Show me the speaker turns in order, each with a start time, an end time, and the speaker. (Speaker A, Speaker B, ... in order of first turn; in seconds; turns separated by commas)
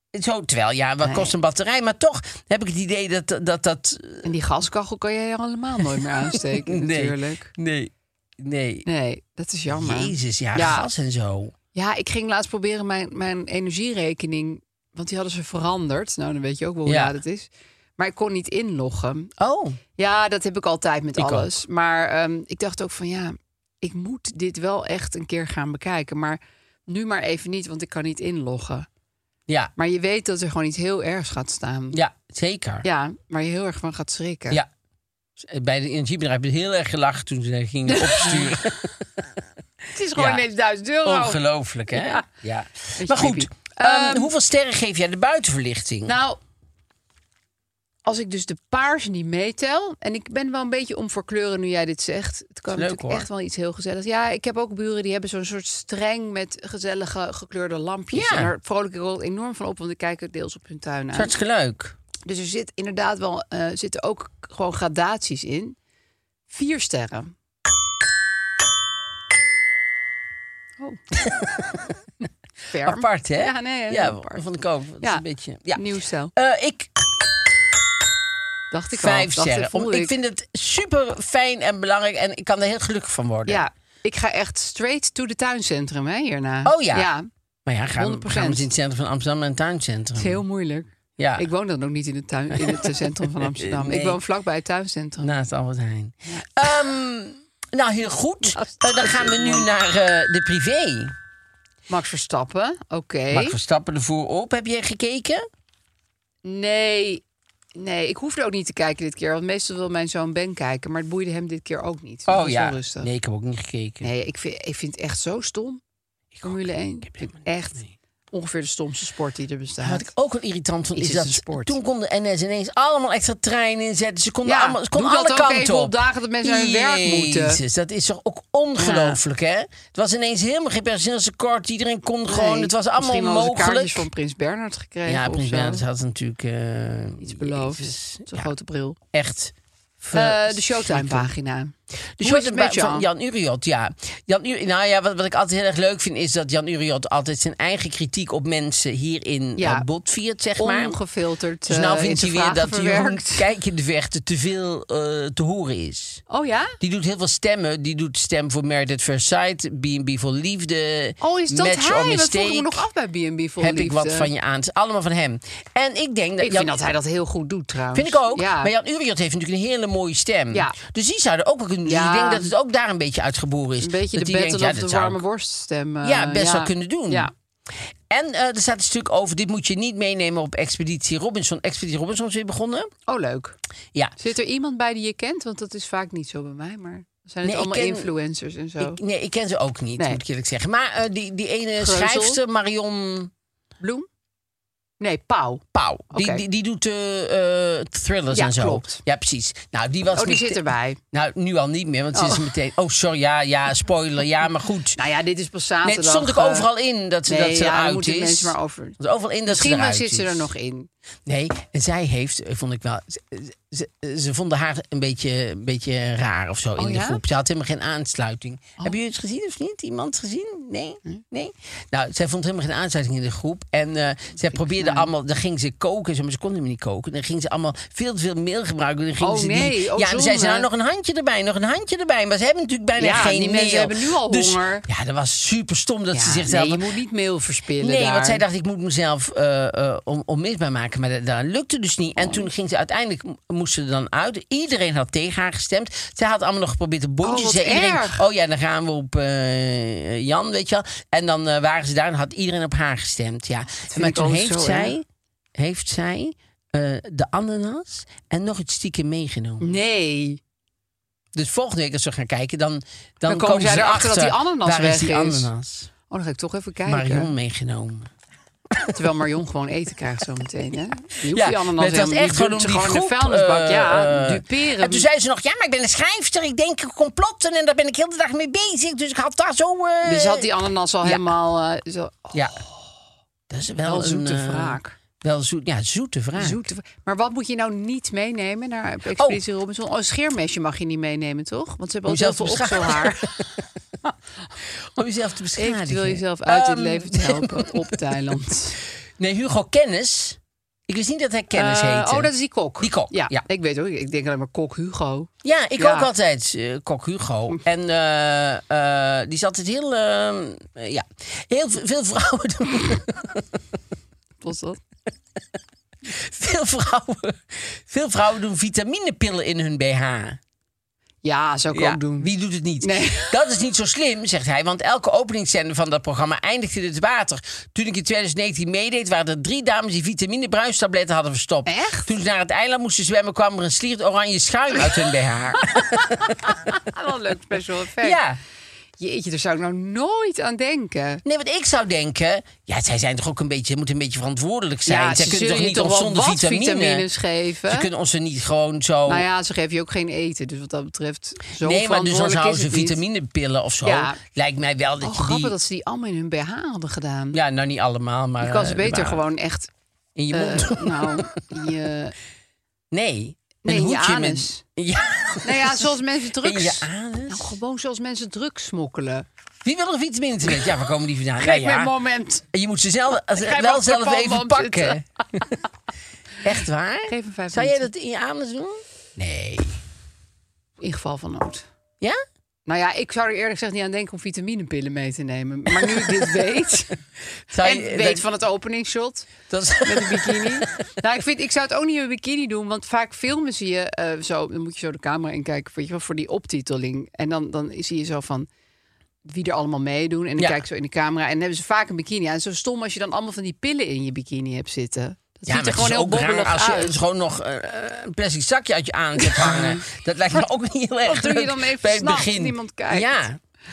Speaker A: 0.1-4.3, Speaker B: 1.0-1.3, Speaker B: 4.2-7.5, Speaker A: 6.2-8.9, Speaker B: 8.9-10.9, Speaker A: 9.7-11.5, Speaker B: 11.7-19.3, Speaker A: 16.9-17.1, Speaker A: 19.4-19.8, Speaker B: 20.0-28.9, Speaker A: 21.2-21.5, Speaker B: 29.8-32.0, Speaker A: 31.9-32.9, Speaker B: 32.8-34.6, Speaker A: 35.4-39.2, Speaker B: 37.9-38.6, Speaker B: 39.9-42.3, Speaker A: 40.2-40.4, Speaker A: 41.0-46.2, Speaker B: 43.0-44.3, Speaker B: 46.1-46.4, Speaker B: 48.0-61.3, Speaker A: 52.7-53.3, Speaker A: 58.1-58.5, Speaker A: 61.1-62.0, Speaker B: 62.3-65.8, Speaker B: 66.5-67.3, Speaker A: 71.2-71.9, Speaker B: 72.7-74.4, Speaker A: 72.8-75.8, Speaker B: 75.0-76.3, Speaker A: 76.4-76.9, Speaker B: 78.7-80.1, Speaker A: 78.9-83.6, Speaker B: 83.5-87.3, Speaker A: 86.7-87.1, Speaker A: 87.7-90.4, Speaker B: 88.0-88.7, Speaker B: 90.2-95.3, Speaker A: 91.2-91.5, Speaker A: 92.5-94.2, Speaker A: 95.2-101.1, Speaker B: 98.4-99.7, Speaker B: 101.9-103.6, Speaker A: 103.3-105.5, Speaker B: 106.4-107.2, Speaker B: 107.8-113.1, Speaker A: 112.3-114.1, Speaker B: 114.0-115.8, Speaker A: 116.3-117.9, Speaker B: 116.4-120.1, Speaker A: 119.8-134.1, Speaker B: 121.0-121.8, Speaker B: 124.5-127.6, Speaker B: 128.8-129.2, Speaker B: 132.3-135.8, Speaker A: 135.1-138.5, Speaker B: 137.2-139.0, Speaker A: 139.1-141.3, Speaker B: 140.1-143.1, Speaker A: 142.2-151.0, Speaker B: 149.6-149.9, Speaker B: 150.6-153.5, Speaker A: 151.7-156.2, Speaker B: 156.3-156.8, Speaker A: 156.8-162.8, Speaker B: 161.2-164.3, Speaker A: 163.6-166.8, Speaker B: 166.4-168.7, Speaker A: 167.9-175.2, Speaker B: 171.8-172.5, Speaker B: 173.8-177.3, Speaker A: 176.0-177.3, Speaker A: 178.1-182.9, Speaker B: 183.1-183.6, Speaker B: 184.2-189.0, Speaker A: 187.4-188.1, Speaker A: 188.8-193.3, Speaker B: 191.8-192.4, Speaker B: 193.8-194.1, Speaker B: 195.0-196.4, Speaker A: 195.7-205.0, Speaker B: 198.3-199.0, Speaker B: 200.1-201.0, Speaker B: 202.1-202.5, Speaker B: 205.0-206.7, Speaker A: 205.8-210.5, Speaker B: 207.3-210.9, Speaker A: 211.3-236.9, Speaker B: 216.8-217.2, Speaker B: 224.5-225.1, Speaker B: 229.2-230.7, Speaker B: 233.0-234.8, Speaker B: 236.1-238.4, Speaker A: 237.8-255.1, Speaker B: 242.2-242.5, Speaker B: 247.2-248.2, Speaker B: 253.9-255.0, Speaker A: 255.6-259.7, Speaker B: 259.6-260.4, Speaker A: 261.4-265.9, Speaker B: 263.2-265.5, Speaker B: 266.1-267.3, Speaker A: 266.9-268.1, Speaker A: 268.7-269.0, Speaker B: 268.9-275.1, Speaker A: 271.3-280.5, Speaker B: 280.0-282.7, Speaker A: 281.0-281.3, Speaker A: 282.3-282.6, Speaker A: 283.5-286.6, Speaker B: 283.8-285.0, Speaker B: 286.4-293.4, Speaker A: 289.2-289.4, Speaker A: 292.1-293.3, Speaker A: 294.8-298.1, Speaker B: 295.6-298.8, Speaker A: 299.2-303.4, Speaker B: 301.5-306.1, Speaker A: 305.4-313.6, Speaker B: 314.4-314.8, Speaker A: 316.1-320.4, Speaker B: 321.2-323.3, Speaker A: 321.7-336.3, Speaker B: 331.7-332.1, Speaker B: 335.7-338.2, Speaker A: 338.0-338.4, Speaker B: 339.0-341.2, Speaker A: 341.2-347.1, Speaker B: 344.9-347.9, Speaker A: 347.7-349.3, Speaker B: 349.1-353.0, Speaker A: 351.6-355.6, Speaker B: 353.8-354.2, Speaker B: 355.0-357.4, Speaker A: 357.3-359.2, Speaker B: 358.4-359.7, Speaker A: 360.2-361.4, Speaker B: 360.3-362.1, Speaker A: 362.9-365.9, Speaker B: 363.6-364.6, Speaker B: 365.4-369.3, Speaker A: 366.4-367.6, Speaker A: 369.6-371.9, Speaker B: 371.4-372.4, Speaker A: 372.5-375.5, Speaker B: 373.2-375.5, Speaker A: 376.4-379.8, Speaker B: 377.1-377.9, Speaker B: 380.8-381.7, Speaker B: 382.7-387.0, Speaker A: 385.8-386.2, Speaker A: 387.5-388.2, Speaker B: 387.6-389.3, Speaker A: 389.5-390.7, Speaker B: 389.8-398.5, Speaker B: 399.2-407.0, Speaker A: 405.5-413.4, Speaker B: 409.2-409.8, Speaker B: 411.0-413.2